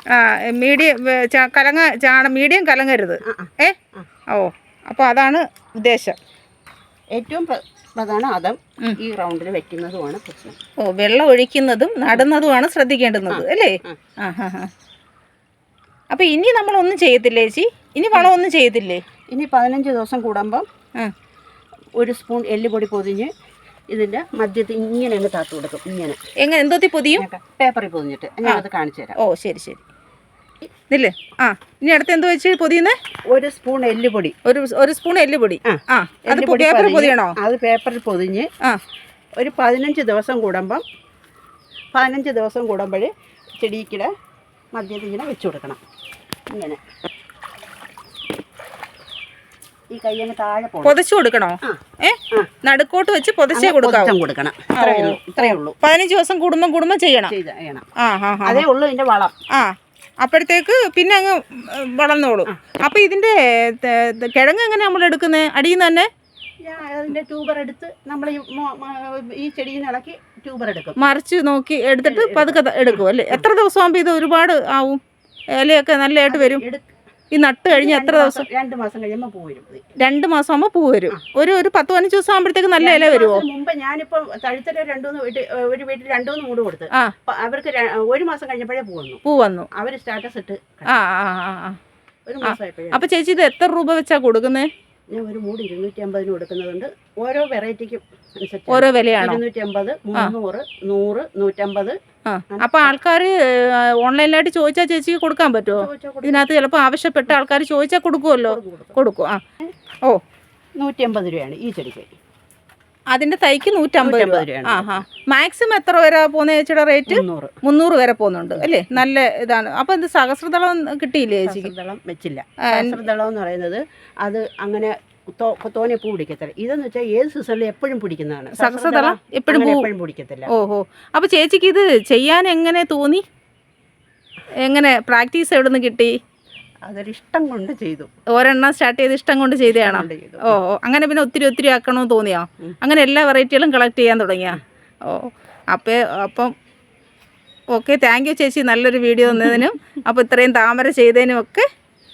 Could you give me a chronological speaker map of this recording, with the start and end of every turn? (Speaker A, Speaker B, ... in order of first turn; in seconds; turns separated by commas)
Speaker A: 0.1-3.8, Speaker B: 3.2-4.1, Speaker A: 4.3-6.2, Speaker B: 7.1-10.6, Speaker A: 10.8-14.7, Speaker B: 13.3-14.0, Speaker A: 16.1-19.0, Speaker B: 19.3-20.6, Speaker B: 22.0-23.3, Speaker B: 23.9-26.2, Speaker A: 26.4-27.2, Speaker B: 27.1-29.2, Speaker A: 29.2-29.8, Speaker A: 30.9-33.0, Speaker B: 33.3-34.3, Speaker A: 34.4-37.4, Speaker B: 35.6-38.5, Speaker B: 39.4-40.8, Speaker B: 41.9-44.1, Speaker B: 44.7-45.8, Speaker B: 46.5-46.8, Speaker B: 49.9-51.0, Speaker A: 50.8-54.1, Speaker B: 53.5-55.8, Speaker A: 54.7-57.3, Speaker B: 57.3-57.8, Speaker A: 58.0-58.6, Speaker B: 58.4-59.3, Speaker A: 59.5-66.1, Speaker B: 66.6-71.0, Speaker A: 71.0-75.0, Speaker B: 72.0-73.4, Speaker A: 75.6-76.6, Speaker B: 76.3-76.9, Speaker A: 77.3-78.5, Speaker B: 77.7-79.8, Speaker A: 80.0-83.4, Speaker B: 82.8-89.2, Speaker A: 89.2-89.7, Speaker B: 89.7-91.0, Speaker A: 90.8-91.8, Speaker B: 92.3-93.0, Speaker A: 92.4-94.7, Speaker B: 95.1-102.0, Speaker A: 98.7-99.4, Speaker A: 102.3-109.4, Speaker B: 102.5-103.0, Speaker B: 105.8-106.4, Speaker B: 108.5-109.0, Speaker B: 110.8-112.1, Speaker A: 113.1-121.7, Speaker B: 114.0-115.0, Speaker B: 117.1-117.5, Speaker B: 118.6-119.0, Speaker B: 121.4-130.5, Speaker A: 122.6-123.0, Speaker A: 128.6-129.9, Speaker A: 130.5-133.2, Speaker A: 134.6-136.2, Speaker B: 136.8-138.1, Speaker A: 138.3-146.5, Speaker B: 139.7-140.6, Speaker A: 147.7-151.7